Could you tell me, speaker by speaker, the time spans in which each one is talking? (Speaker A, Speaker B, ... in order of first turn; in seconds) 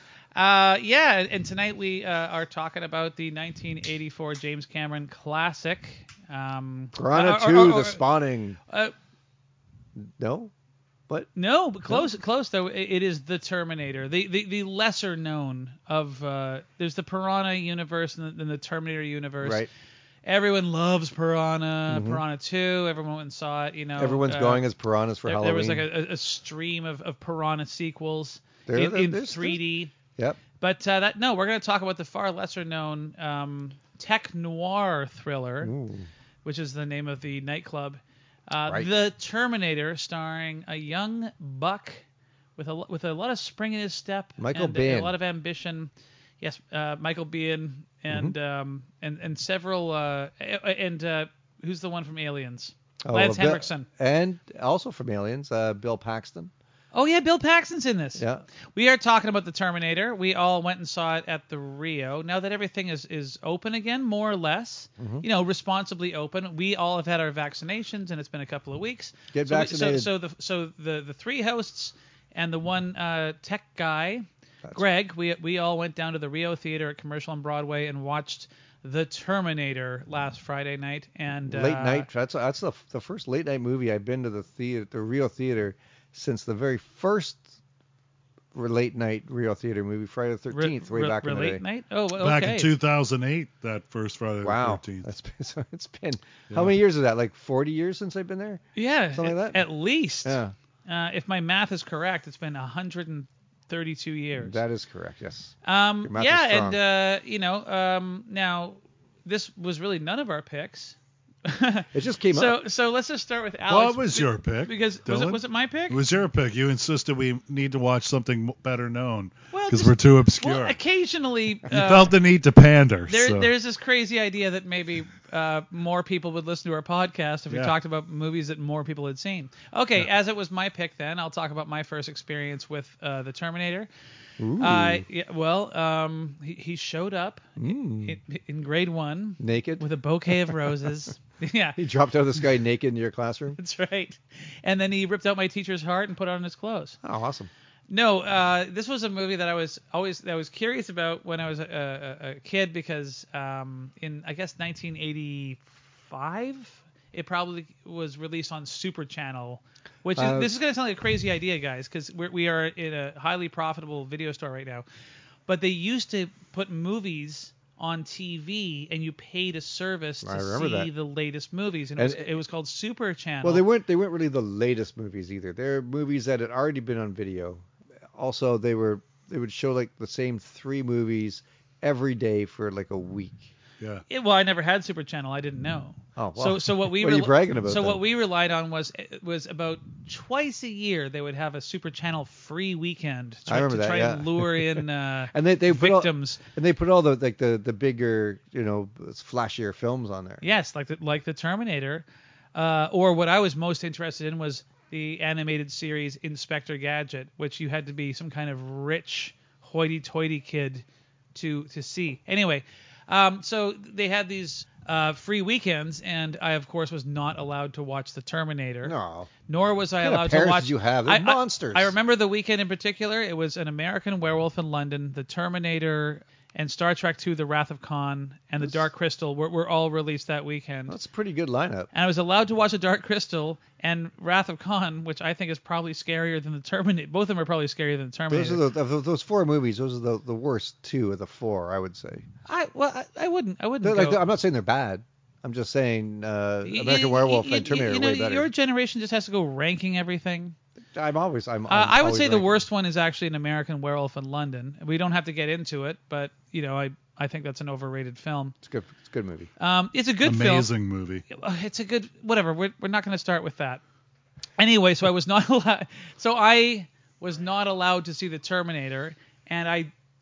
Speaker A: 0.3-8.1, 8.7-8.9, 11.3-19.7, 20.2-24.6, 25.2-29.9, 30.6-35.7, 36.4-42.0, 42.6-53.9, 56.9-82.1, 90.5-92.7, 98.8-104.6, 105.7-116.0, 119.5-122.2, 123.1-133.9, 134.6-141.8, 143.6-147.0, 147.9-164.8, 165.5-173.7, 184.1-196.4, 200.4-218.9, 219.5-231.0, 231.9-238.6, 242.5-244.2, 246.7-250.6, 251.7-258.6, 259.6-260.7, 261.3-263.8, 264.6-269.9
Speaker B: 6.9-8.6, 10.0-10.5, 19.4-19.7, 21.9-22.2, 24.0-25.9, 28.7-29.6, 35.6-36.1, 44.4-45.1, 48.1-48.4, 53.0-56.5, 58.2-58.5, 65.0-65.2, 69.3-70.1, 81.5-87.5, 88.5-91.6, 94.4-99.7, 100.2-100.5, 104.3-106.8, 111.9-112.6, 134.4-135.1, 137.6-138.2, 139.4-139.8, 140.4-140.7, 141.8-143.6, 147.0-147.5, 160.2-160.5, 170.2-170.9, 172.0-172.3, 173.4-183.5, 186.2-188.0, 193.5-200.4, 218.8-219.3, 220.0-221.9, 230.9-231.9, 238.3-242.2, 243.8-248.5, 250.9-252.6, 258.6-259.5
Speaker C: 92.2-95.1, 96.5-96.8, 113.7-120.8, 121.7-123.5, 260.2-261.2